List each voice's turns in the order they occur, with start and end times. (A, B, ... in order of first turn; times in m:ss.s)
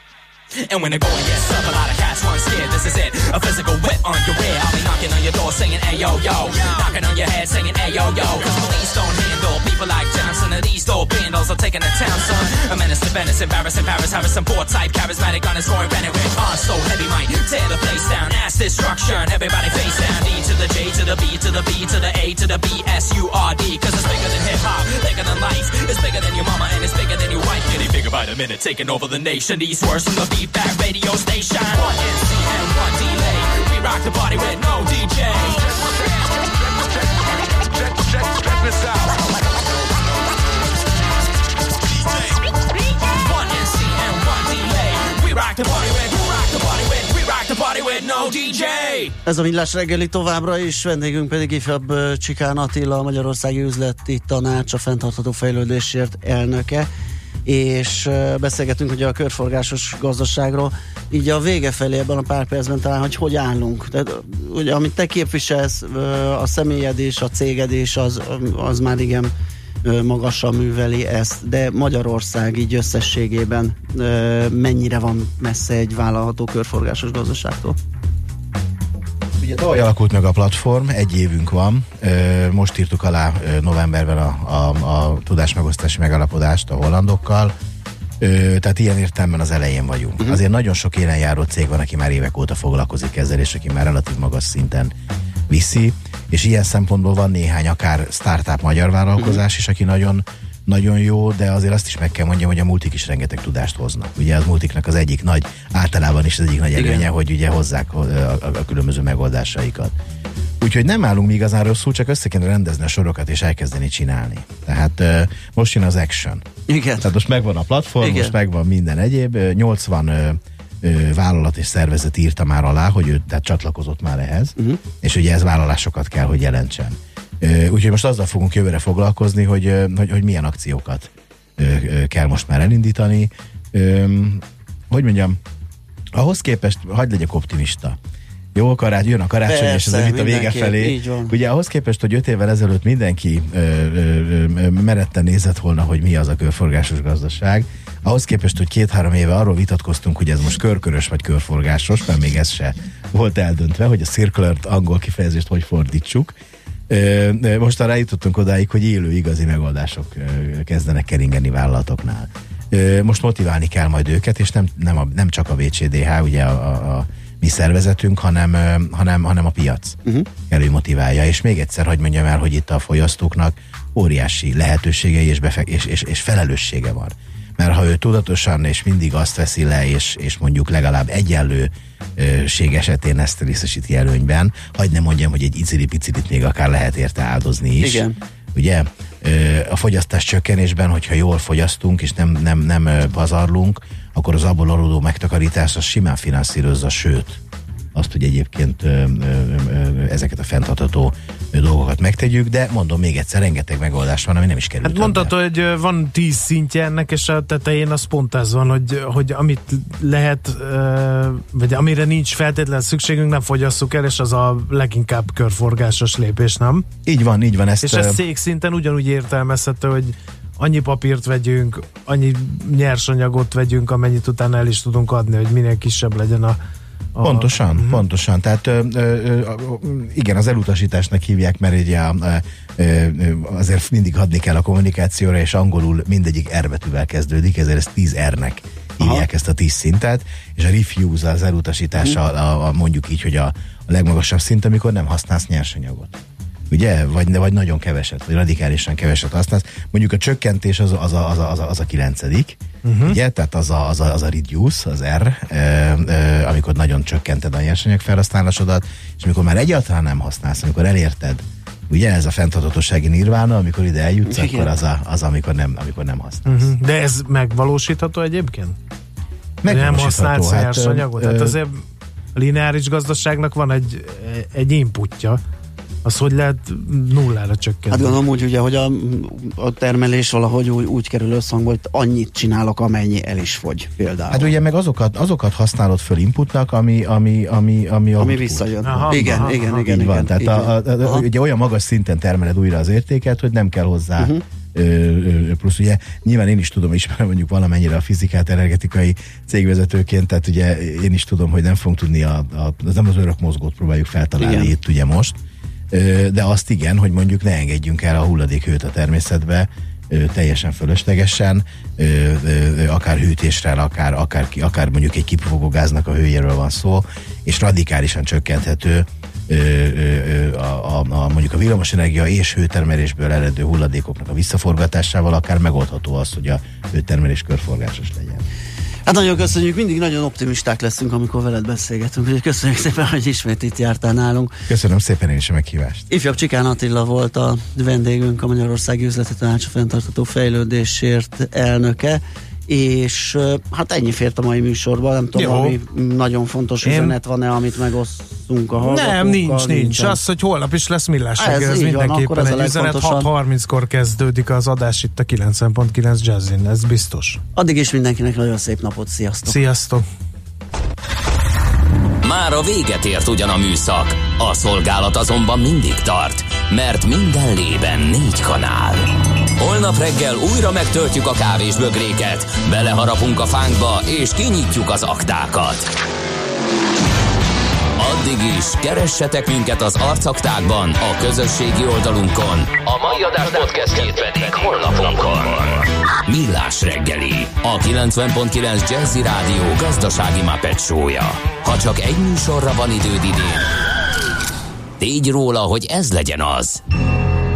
0:00.6-0:35.9 A
0:43.1-0:49.2 A
0:49.2-0:56.9 B
0:57.4-1:09.3 B
1:09.8-1:17.8 B
1:19.4-1:27.5 C
1:28.2-1:34.9 C
1:35.5-1:49.9 C
1:46.8-1:47.1 B
1:50.6-1:56.4 C
1:56.7-1:57.1 B
1:57.0-2:15.4 C
1:58.0-1:58.3 B
2:16.1-2:18.0 C
2:18.5-2:36.3 C
2:19.4-2:21.3 B
2:36.9-3:17.4 C
3:07.8-3:08.2 B
3:17.9-3:25.3 C
3:24.8-3:36.8 D
3:37.0-3:38.2 C
3:37.8-3:46.6 D
3:47.2-3:48.0 D
3:47.2-4:06.2 C
3:59.0-3:59.2 B
4:06.7-4:26.7 C
4:12.8-4:13.2 D
4:24.2-4:24.7 B
4:26.4-4:28.8 D
4:29.6-4:31.6 C
4:29.7-4:31.8 D
4:32.4-4:35.4 D
4:36.0-4:38.2 D
4:37.9-4:44.5 B
4:44.3-5:05.4 C
4:48.2-4:51.2 B
4:48.8-4:49.8 D
5:04.4-5:04.7 B
5:05.9-5:28.4 C
5:29.0-5:34.5 B
5:34.7-5:36.1 C
5:36.1-5:50.2 B
5:45.4-5:45.7 D
5:46.8-5:47.2 D
5:48.8-5:57.4 D
5:51.4-5:53.3 B
5:57.6-5:59.6 B
5:59.5-6:00.0 D
6:02.2-6:15.9 E
6:18.0-6:33.7 E
6:35.0-6:36.8 E